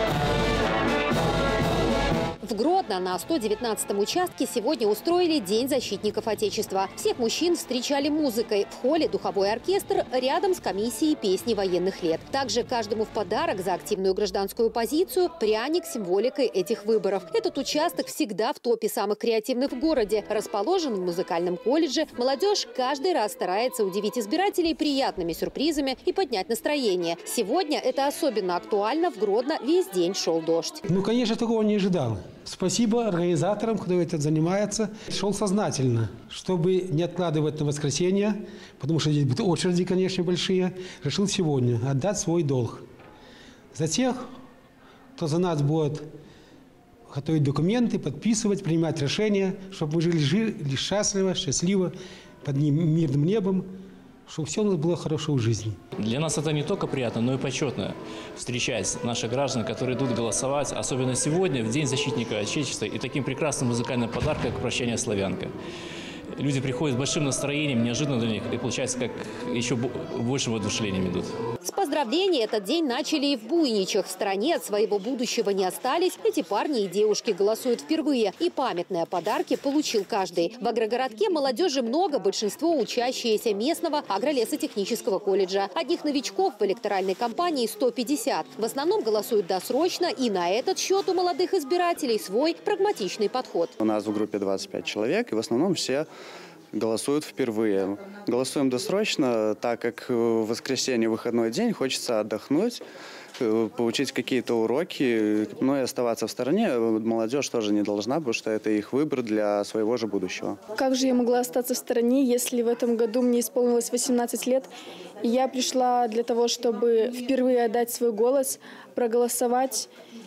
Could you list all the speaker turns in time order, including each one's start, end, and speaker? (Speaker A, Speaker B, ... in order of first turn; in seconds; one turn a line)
Speaker A: 2.4-30.8
Speaker B: 30.9-42.9
Speaker B: 43.7-44.3
Speaker B: 45.2-46.1
Speaker B: 47.1-53.7
Speaker B: 54.3-55.8
Speaker C: 56.0-65.5
Speaker C: 66.3-71.3
Speaker A: 71.6-93.7
Speaker D: 93.8-96.1
Speaker D: 96.7-102.8
Speaker D: 103.4-110.6
Speaker E: 110.7-119.9